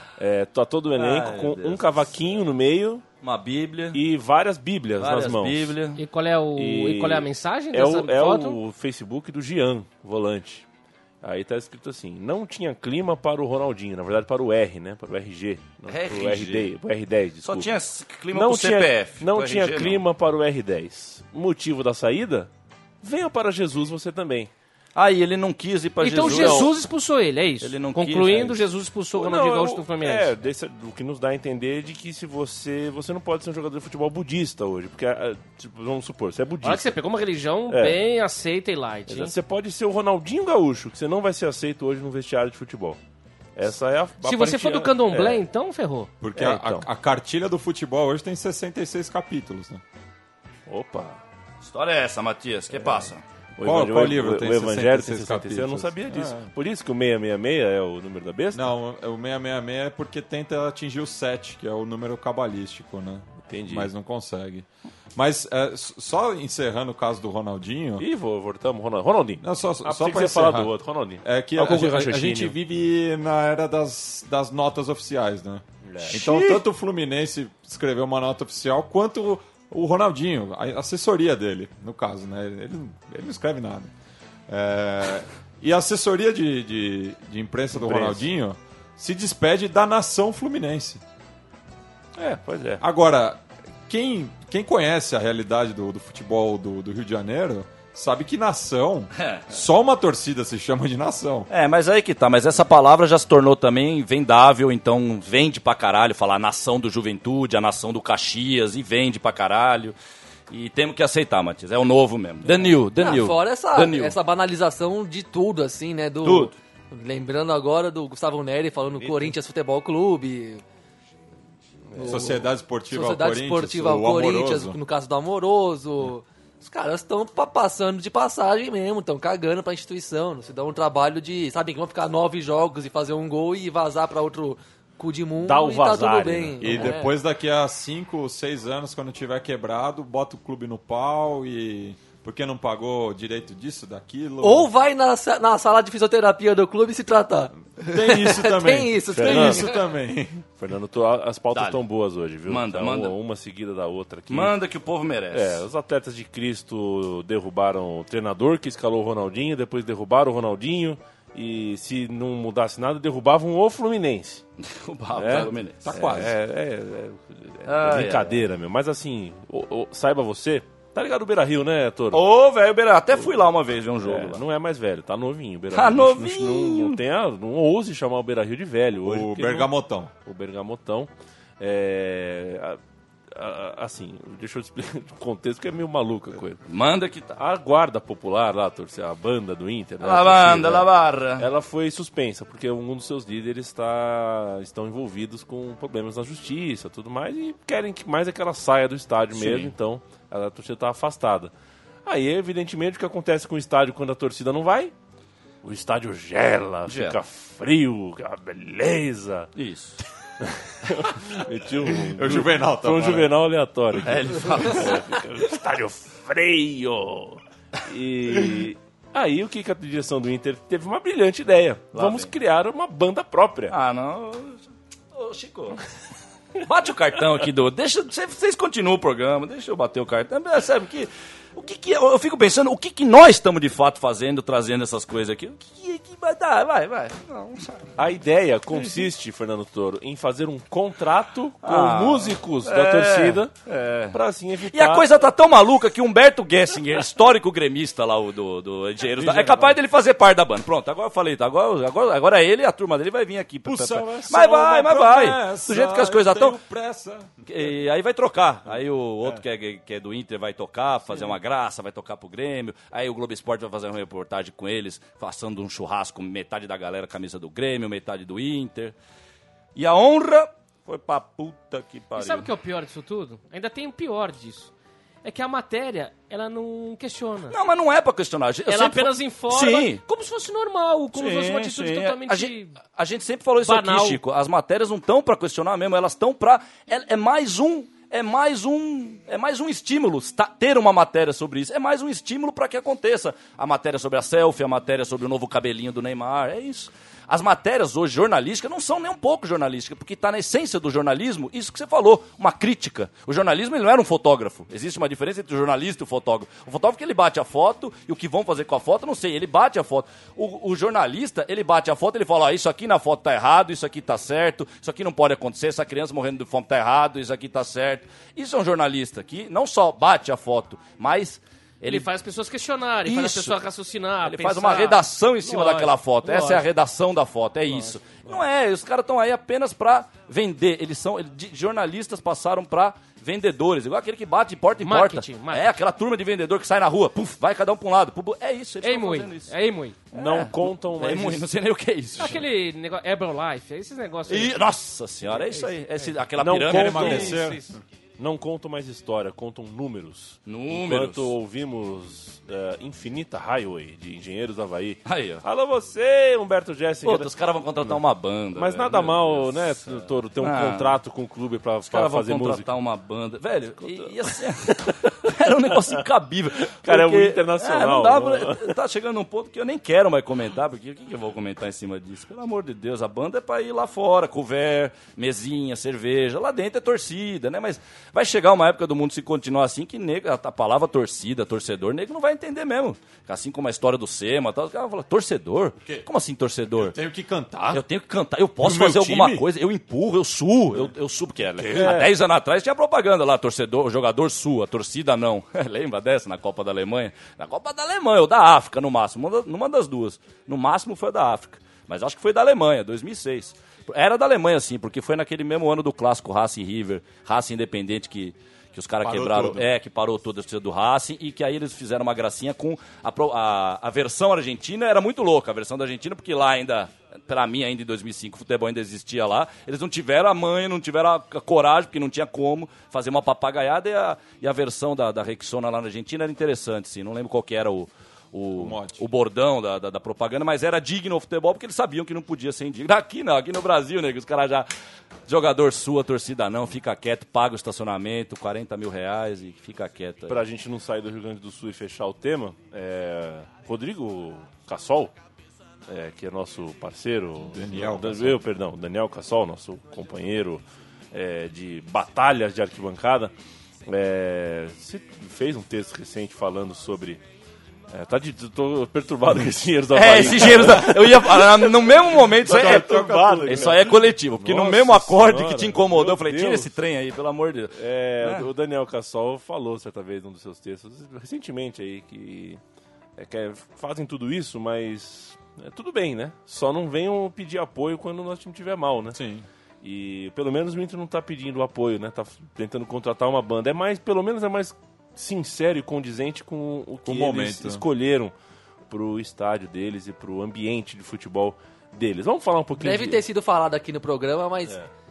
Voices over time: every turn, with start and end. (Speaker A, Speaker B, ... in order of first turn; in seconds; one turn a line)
Speaker A: 0.2-3.0
Speaker B: 0.9-2.4
Speaker B: 3.2-4.0
Speaker A: 3.9-5.8
Speaker B: 5.0-6.0
Speaker C: 6.0-8.6
Speaker A: 6.6-10.7
Speaker A: 11.2-17.7
Speaker B: 15.9-16.7
Speaker B: 17.4-20.0
Speaker A: 18.3-22.5
Speaker A: 23.0-24.5
Speaker B: 25.0-26.7
Speaker C: 26.0-30.4
Speaker A: 26.2-26.7
Speaker B: 27.6-28.6
Speaker A: 29.1-37.0
Speaker C: 36.6-39.4
Speaker A: 37.7-38.0
Speaker A: 39.1-43.0
Speaker A: 43.5-45.4
Speaker C: 44.2-46.8
Speaker D: 46.2-49.8
Speaker A: 50.7-51.2
Speaker B: 51.6-53.2
Speaker A: 53.6-58.7
Speaker D: 53.6-56.5
Speaker D: 58.5-68.0
Speaker A: 63.5-63.9
Speaker A: 68.0-72.5
Speaker D: 69.4-83.9
Speaker A: 75.8-76.6
Speaker D: 84.5-91.0
Speaker A: 87.7-88.3
Speaker A: 92.2-92.8
Speaker D: 92.8-101.5
Speaker B: 99.2-99.5
Speaker B: 101.5-110.0
Speaker B: 110.5-114.2
Speaker E: 113.0-120.6
Speaker B: 116.2-116.5
Speaker A: 118.9-119.3
Speaker A: 121.9-122.2
Speaker E: 122.0-137.1
Speaker D: 122.0-124.8
Speaker A: 135.4-136.9
Speaker D: 136.6-144.7
Speaker E: 144.4-149.7
Speaker D: 147.8-150.4
Speaker A: 149.2-149.7
Speaker A: 150.6-154.6
Speaker B: 151.5-151.8
Speaker B: 152.5-153.1
Speaker B: 154.3-155.6
Speaker A: 155.3-164.4
Speaker B: 164.7-166.0
Speaker A: 165.2-172.2
Speaker D: 165.8-166.4
Speaker B: 167.7-168.5
Speaker B: 172.1-174.4
Speaker A: 173.1-173.4
Speaker A: 174.0-179.7
Speaker B: 175.7-177.0
Speaker D: 179.0-180.1
Speaker A: 180.2-182.8
Speaker A: 183.3-186.6
Speaker B: 186.7-187.4
Speaker A: 187.4-201.5
Speaker B: 190.0-191.5
Speaker B: 199.3-199.7
Speaker A: 202.1-204.9
Speaker A: 205.6-209.5
Speaker B: 206.9-207.2
Speaker B: 209.6-210.0
Speaker A: 210.4-223.8
Speaker D: 212.1-213.3
Speaker B: 214.0-215.2
Speaker B: 221.9-222.3
Speaker B: 223.7-225.8
Speaker B: 226.6-237.9
Speaker A: 238.0-243.5
Speaker B: 238.7-239.1
Speaker B: 241.6-244.2
Speaker A: 244.1-245.1
Speaker B: 244.7-256.6
Speaker D: 249.2-249.8
Speaker D: 253.7-257.3
Speaker B: 257.5-268.9
Speaker B: 269.8-272.5
Speaker C: 272.1-274.7
Speaker C: 275.2-277.6
Speaker B: 277.5-280.0
Speaker C: 278.7-282.8
Speaker B: 281.1-322.1
Speaker C: 283.6-284.2
Speaker C: 321.9-326.6
Speaker B: 323.1-323.6
Speaker B: 324.2-339.5
Speaker C: 327.7-328.0
Speaker C: 334.8-335.7
Speaker C: 338.8-340.0
Speaker A: 340.1-341.5
Speaker B: 340.1-342.4
Speaker C: 342.2-344.6
Speaker B: 344.3-347.4
Speaker A: 346.4-347.6
Speaker D: 346.6-347.8
Speaker C: 347.1-347.8
Speaker A: 348.2-357.3
Speaker B: 350.5-351.3
Speaker B: 355.1-355.4
Speaker B: 357.0-361.0
Speaker A: 358.6-362.7
Speaker B: 361.9-386.9
Speaker A: 363.8-365.3
Speaker A: 366.8-368.7
Speaker D: 385.8-386.1
Speaker D: 386.8-387.8
Speaker B: 387.7-434.7
Speaker D: 388.6-389.5
Speaker D: 391.6-392.0
Speaker A: 391.6-392.1
Speaker D: 409.0-409.7
Speaker D: 428.6-429.0
Speaker B: 435.3-440.4
Speaker A: 440.3-445.1
Speaker A: 445.9-453.3
Speaker D: 447.5-448.4
Speaker A: 453.9-457.2
Speaker A: 457.9-464.0
Speaker B: 459.9-468.5
Speaker D: 462.4-465.2
Speaker A: 465.1-466.7
Speaker A: 467.8-472.6
Speaker A: 473.2-479.2
Speaker D: 479.1-479.5
Speaker A: 479.8-488.3
Speaker D: 487.1-487.9
Speaker A: 488.9-493.2
Speaker E: 492.8-494.8